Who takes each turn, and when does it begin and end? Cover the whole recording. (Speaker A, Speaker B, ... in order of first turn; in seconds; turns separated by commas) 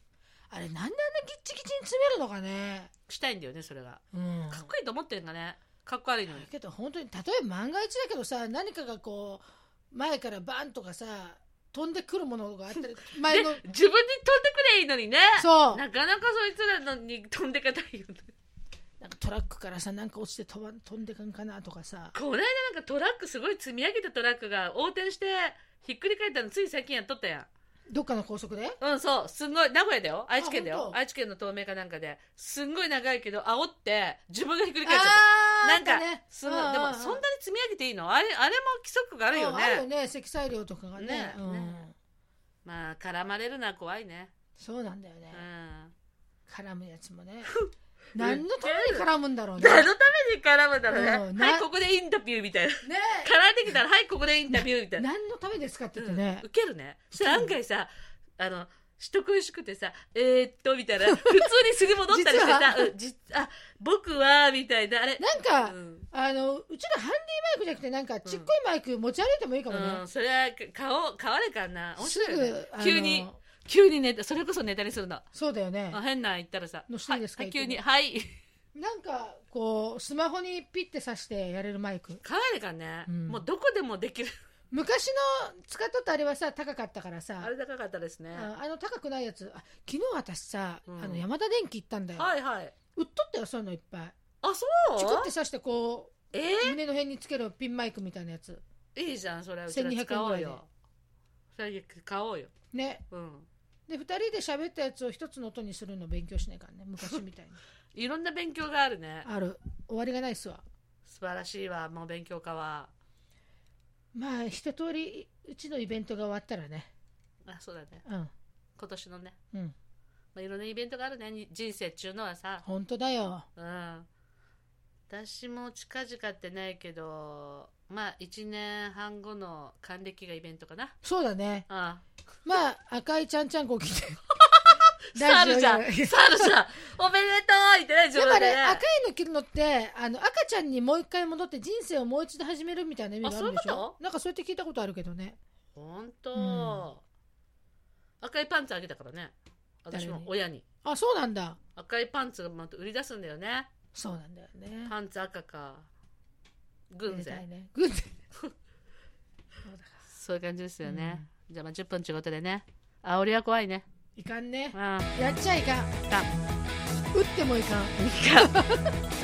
Speaker A: 0.5-2.9, Speaker B: 3.1-6.5, Speaker A: 4.1-4.7, Speaker A: 6.3-13.6, Speaker B: 13.3-18.3, Speaker A: 15.4-15.8, Speaker A: 19.0-22.1, Speaker B: 22.1-27.5, Speaker A: 27.9-28.8, Speaker B: 28.8-39.8, Speaker A: 30.4-31.0, Speaker A: 34.9-37.2, Speaker A: 39.3-42.0, Speaker B: 41.0-41.8, Speaker B: 42.6-44.3, Speaker A: 44.6-45.4, Speaker B: 45.3-45.9, Speaker A: 46.5-47.5, Speaker A: 48.1-49.9, Speaker B: 48.2-49.0, Speaker B: 49.6-55.0, Speaker A: 50.9-51.7, Speaker A: 52.8-53.3, Speaker A: 54.5-56.5, Speaker B: 56.0-66.1, Speaker A: 57.1-57.5, Speaker A: 62.1-62.9, Speaker A: 65.2-70.0, Speaker B: 68.2-68.5, Speaker B: 69.7-75.3, Speaker A: 72.0-73.4, Speaker A: 75.3-76.0, Speaker B: 75.9-78.3, Speaker A: 76.9-77.8, Speaker A: 78.8-82.2, Speaker B: 82.2-84.3, Speaker A: 83.1-83.4, Speaker A: 84.7-87.5, Speaker B: 87.4-88.5, Speaker A: 88.3-92.3, Speaker B: 90.9-91.2, Speaker B: 92.2-92.7, Speaker A: 93.0-94.2, Speaker B: 94.4-95.3, Speaker A: 95.0-98.6, Speaker B: 96.3-96.8, Speaker B: 99.0-100.7, Speaker A: 99.7-100.6, Speaker B: 101.5-102.5, Speaker A: 102.7-103.0, Speaker B: 103.1-103.5, Speaker A: 103.9-107.6, Speaker B: 107.9-109.3, Speaker A: 109.2-110.6, Speaker B: 111.1-112.9, Speaker A: 114.1-116.9, Speaker B: 117.5-118.0, Speaker A: 118.0-118.3, Speaker B: 118.8-119.3, Speaker B: 120.3-122.7, Speaker A: 122.7-123.5, Speaker B: 123.6-124.1, Speaker B: 125.1-131.0, Speaker A: 131.0-131.7, Speaker B: 131.7-132.0, Speaker A: 132.4-134.2, Speaker B: 134.5-138.8, Speaker A: 135.1-136.6, Speaker A: 138.2-145.4, Speaker B: 143.2-143.9, Speaker B: 145.8-147.0, Speaker A: 146.3-146.9, Speaker B: 148.2-149.3, Speaker B: 149.8-150.6, Speaker A: 149.9-150.3, Speaker A: 150.8-151.6, Speaker B: 151.8-153.7, Speaker A: 153.9-154.9, Speaker B: 154.9-155.9, Speaker B: 156.9-157.4, Speaker A: 157.1-158.2, Speaker A: 159.6-160.0, Speaker B: 160.1-163.8, Speaker A: 160.8-161.3, Speaker A: 164.2-165.9, Speaker B: 164.7-165.1, Speaker A: 167.1-168.9, Speaker B: 168.0-168.6